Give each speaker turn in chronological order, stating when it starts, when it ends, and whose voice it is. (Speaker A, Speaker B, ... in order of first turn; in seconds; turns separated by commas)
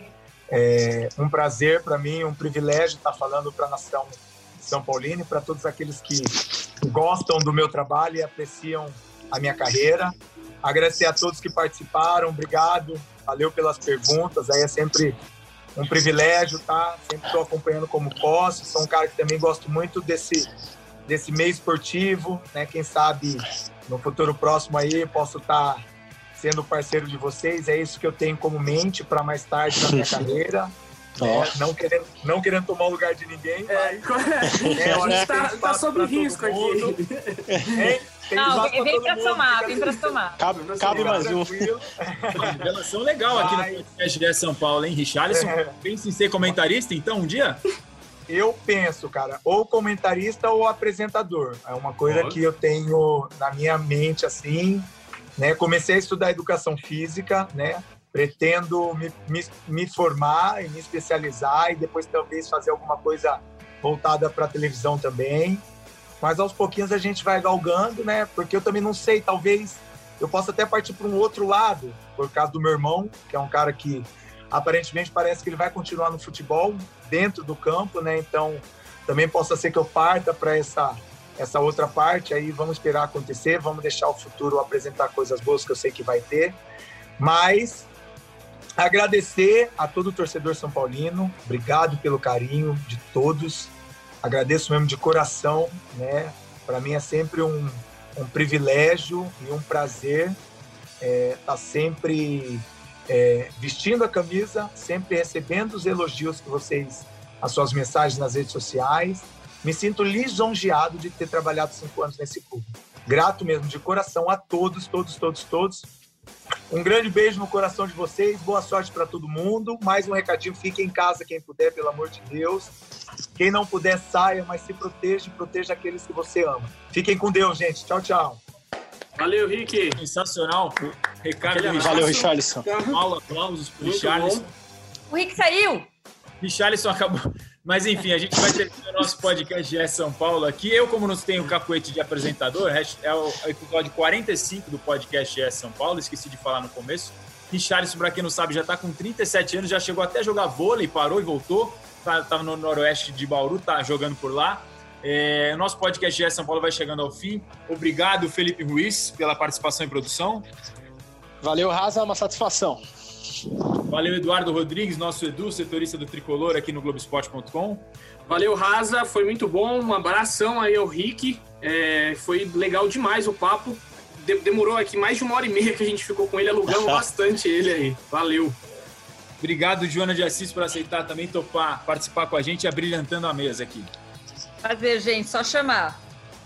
Speaker A: 0.5-15.2, Speaker A: 15.8-20.5, Speaker A: 21.1-25.8, Speaker A: 26.3-34.0, Speaker B: 31.2-31.5, Speaker C: 33.7-37.9, Speaker B: 34.6-35.2, Speaker A: 34.8-37.0, Speaker B: 37.5-37.9, Speaker A: 37.7-40.2, Speaker D: 38.3-40.4, Speaker B: 40.4-41.7, Speaker C: 40.5-41.4, Speaker A: 40.8-42.7, Speaker E: 42.4-47.6, Speaker C: 42.4-42.6, Speaker A: 43.3-43.8, Speaker A: 45.3-45.8, Speaker A: 48.3-65.6, Speaker C: 52.0-52.4, Speaker A: 66.2-86.6, Speaker A: 87.2-87.9, Speaker A: 88.8-100.4, Speaker A: 101.0-115.9, Speaker A: 116.7-122.7, Speaker A: 123.3-128.4, Speaker C: 129.2-130.0, Speaker E: 130.0-132.2, Speaker C: 131.5-133.0, Speaker B: 131.7-132.7, Speaker E: 132.9-134.5, Speaker C: 133.8-134.4, Speaker D: 135.1-135.9, Speaker E: 136.4-160.4, Speaker B: 161.4-162.8, Speaker E: 163.9-167.9, Speaker C: 168.3-178.6, Speaker E: 179.4-183.9, Speaker D: 184.6-186.0